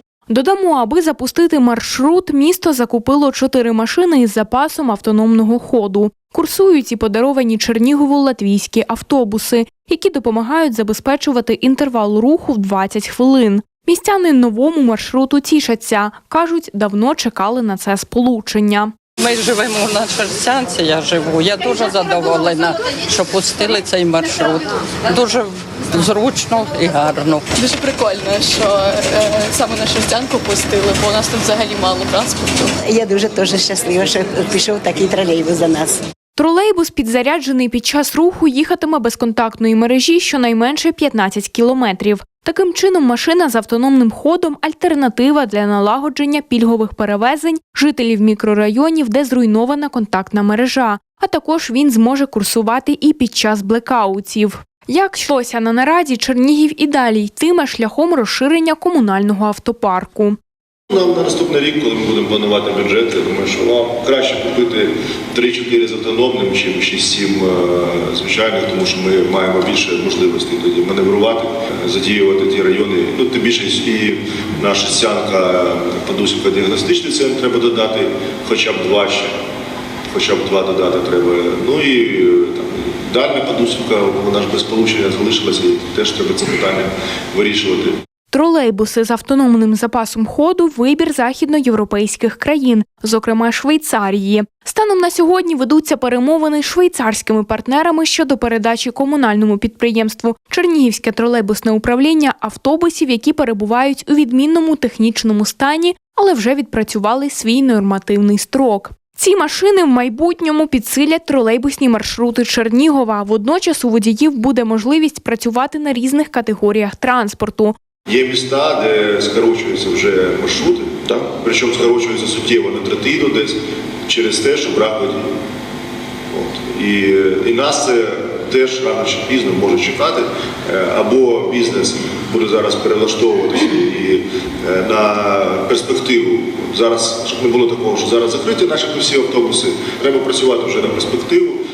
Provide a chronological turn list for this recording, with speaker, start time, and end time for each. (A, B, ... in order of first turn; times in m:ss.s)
0:00.3-0:18.9 A
0:19.2-0:27.4 B
0:27.6-0:32.7 C
0:32.8-0:36.0 D
0:36.4-1:00.4 A
1:00.9-1:19.3 E
1:20.1-1:27.9 E
1:28.3-1:57.7 A
1:58.1-2:05.3 E
2:06.3-2:21.6 E